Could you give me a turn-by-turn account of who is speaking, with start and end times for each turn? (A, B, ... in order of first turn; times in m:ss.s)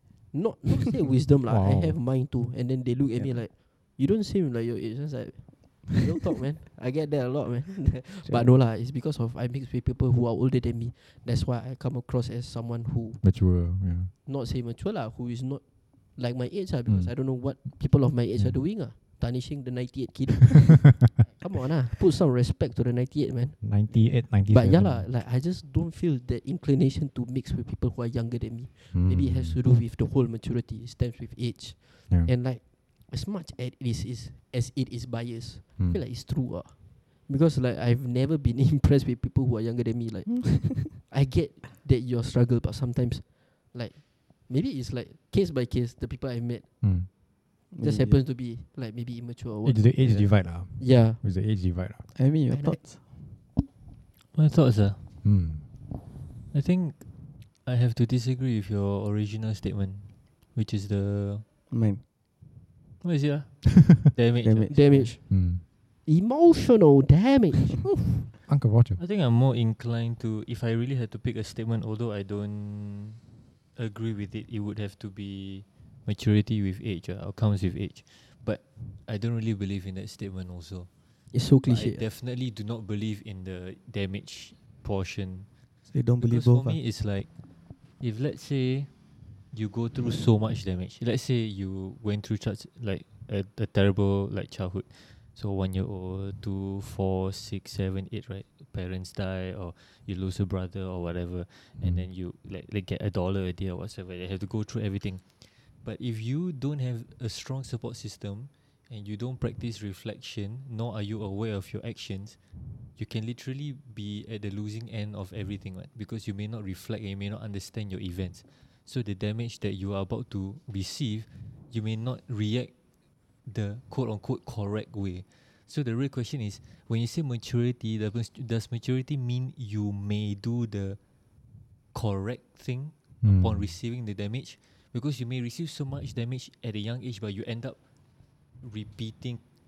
0:00.3-0:13.2 A
0:01.5-0:02.0 B
0:08.2-0:08.5 C
0:13.2-0:14.1 B
0:14.2-0:46.7 A
0:16.9-0:17.1 B
0:18.3-0:18.6 B
0:23.6-0:25.1 B
0:28.9-0:29.6 B
0:40.3-0:41.0 C
0:46.8-0:47.1 B
0:47.7-0:48.2 C
0:47.8-0:51.2 A
0:49.6-0:52.0 B
0:52.1-0:53.0 C
0:52.5-0:52.8 A
0:54.3-0:55.0 D
0:55.2-0:55.6 B
0:56.5-1:01.4 D
1:01.7-1:02.0 C
1:03.0-1:05.1 D
1:04.4-1:05.1 C
1:04.7-1:08.2 A
1:05.3-1:05.6 B
1:08.5-1:09.0 B
1:09.0-1:13.2 D
1:13.8-1:20.9 D
1:21.3-1:22.0 A
1:21.6-1:25.5 D
1:25.9-1:26.8 C
1:26.2-1:27.3 D
1:28.0-1:28.9 D
1:29.5-1:52.4 D
1:41.8-1:42.0 B
1:53.0-2:02.7 D
2:03.4-2:11.0 D
2:11.9-2:17.8 D
2:13.2-2:13.7 B
2:18.6-2:19.4 D